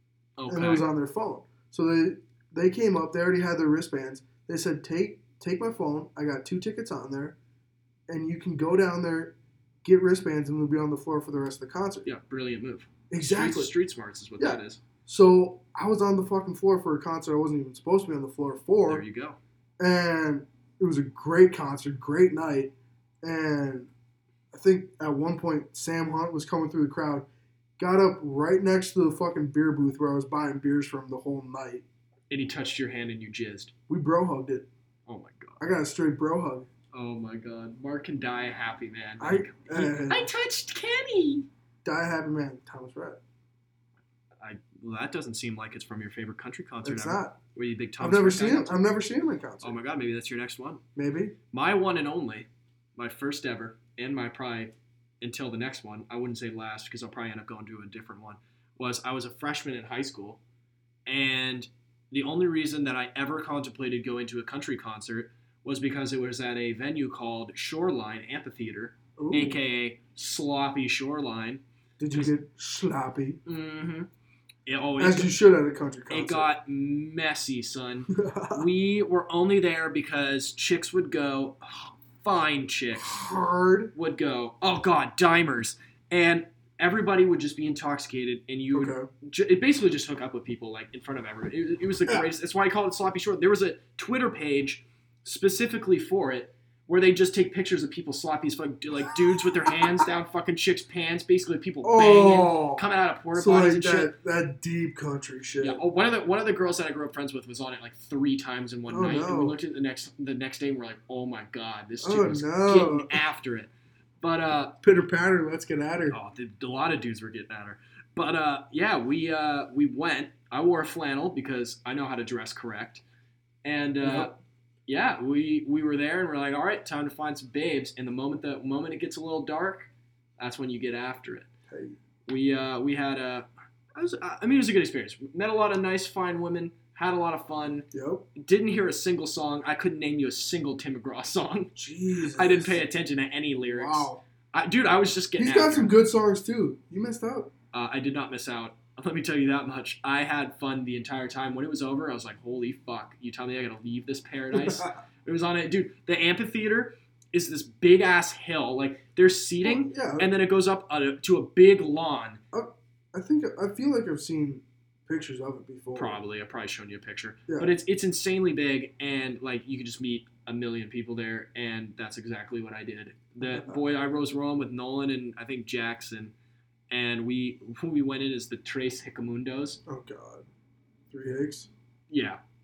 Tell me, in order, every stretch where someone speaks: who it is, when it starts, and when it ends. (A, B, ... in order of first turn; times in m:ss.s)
0:00.4-0:00.9 A
0:00.5-0:07.4 B
0:08.1-0:12.1 B
0:12.0-0:14.8 A
0:13.1-0:13.7 B
0:14.4-0:19.0 B
0:18.9-0:19.4 A
0:19.8-0:23.9 B
0:24.5-0:27.2 B
0:27.8-0:31.8 B
0:32.3-0:33.7 A
0:33.9-0:34.7 B
0:35.1-0:35.7 A
0:35.6-0:36.7 B
0:36.9-0:41.5 A
0:39.2-0:40.3 B
0:41.8-0:43.2 B
0:44.4-0:48.8 A
0:46.8-0:47.4 B
0:48.0-0:49.8 B
0:49.6-0:50.8 A
0:51.0-0:51.3 B
0:51.5-1:00.4 A
1:01.0-1:12.3 A
1:09.2-1:09.6 B
1:12.0-1:13.4 B
1:13.4-1:14.1 A
1:14.6-1:15.3 A
1:15.0-1:16.5 B
1:16.1-1:23.2 A
1:18.1-1:18.6 B
1:23.0-1:23.9 B
1:23.9-1:44.1 A
1:28.7-1:29.1 B
1:39.1-1:40.0 B
1:41.8-1:42.8 B
1:43.3-1:45.8 B
1:45.6-1:53.7 A
1:48.9-1:49.6 B
1:52.0-1:53.2 B
1:54.2-1:54.8 A
1:54.8-1:56.2 B
1:56.1-2:03.0 A
2:03.6-2:04.4 A
2:04.0-2:04.3 B
2:04.9-2:11.5 A
2:11.7-2:12.0 B
2:12.3-2:21.7 A
2:17.9-2:18.2 B
2:21.8-2:22.8 B
2:22.3-2:25.9 A
2:23.6-2:24.2 B
2:25.4-2:27.5 B
2:27.7-2:42.4 A
2:34.5-2:34.9 B
2:39.6-2:40.3 B
2:42.5-2:46.2 B
2:45.9-2:56.3 A
2:47.5-2:47.7 B
2:53.4-2:53.8 B
2:56.9-2:59.8 A
2:59.9-3:00.4 B
3:01.1-3:01.7 B
3:02.1-3:02.4 A